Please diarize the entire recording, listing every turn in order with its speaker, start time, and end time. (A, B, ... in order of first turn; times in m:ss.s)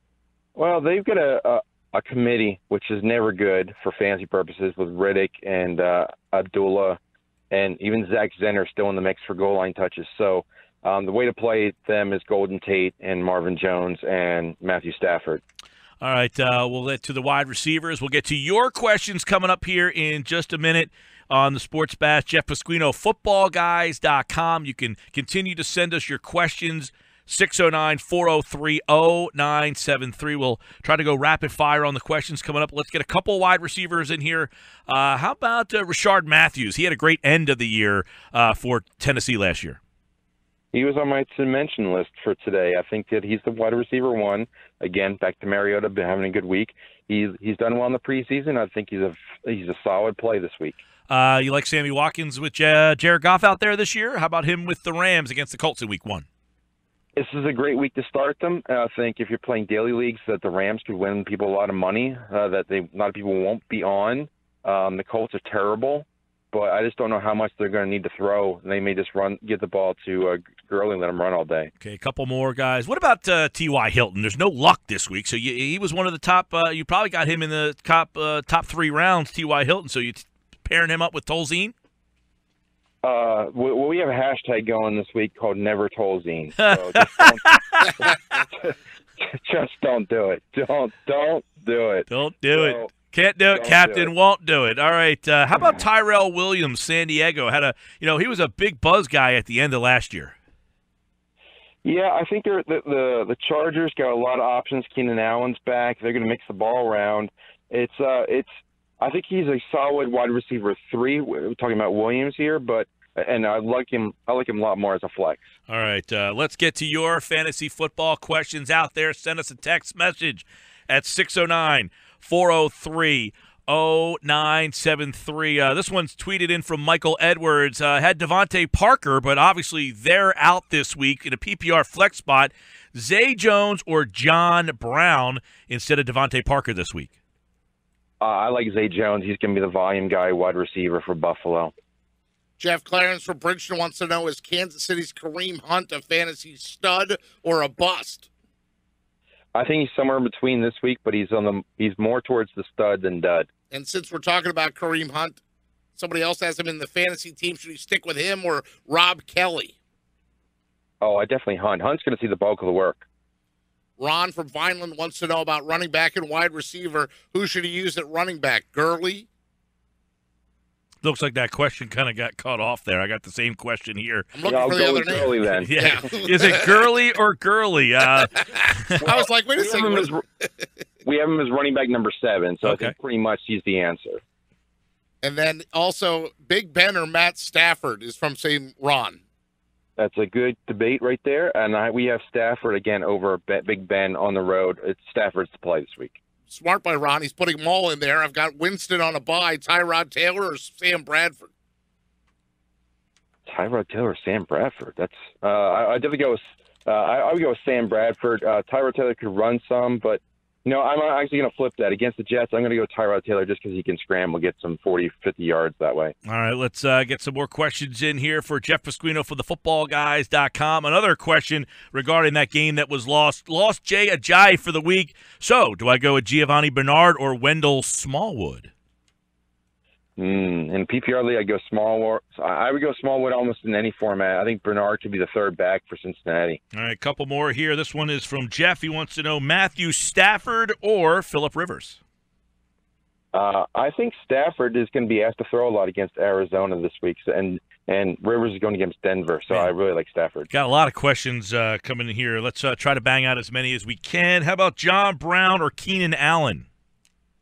0:00.6-0:07.0 A
0:07.5-0:15.4 A
0:16.0-0:39.8 B
0:40.7-0:50.8 A
0:51.1-0:56.2 B
0:57.2-1:11.7 A
1:11.8-1:21.7 B
1:23.0-1:32.9 A
1:26.6-1:28.3 B
1:32.1-1:40.3 B
1:33.5-1:34.1 A
1:41.8-1:55.4 A
1:55.7-2:17.1 B
2:18.2-2:21.7 A
2:22.6-2:28.3 C
2:29.5-2:33.5 A
2:33.7-2:35.4 C
2:36.0-2:39.8 C
2:41.0-2:43.0 A
2:44.0-2:49.3 C
2:51.0-2:54.3 B
2:54.3-2:56.8 C
2:54.4-2:55.7 A
2:55.6-2:59.0 B
2:58.2-3:00.5 C
2:59.0-3:00.2 A
3:01.0-3:04.2 A
3:02.6-3:02.9 B
3:05.2-3:09.2 C
3:10.0-3:16.2 A
3:16.5-3:21.5 C
3:23.4-3:36.1 A
3:36.2-3:48.7 B
3:50.2-3:56.6 A
3:56.7-4:02.0 B
4:03.3-4:10.5 A
4:10.5-4:16.6 B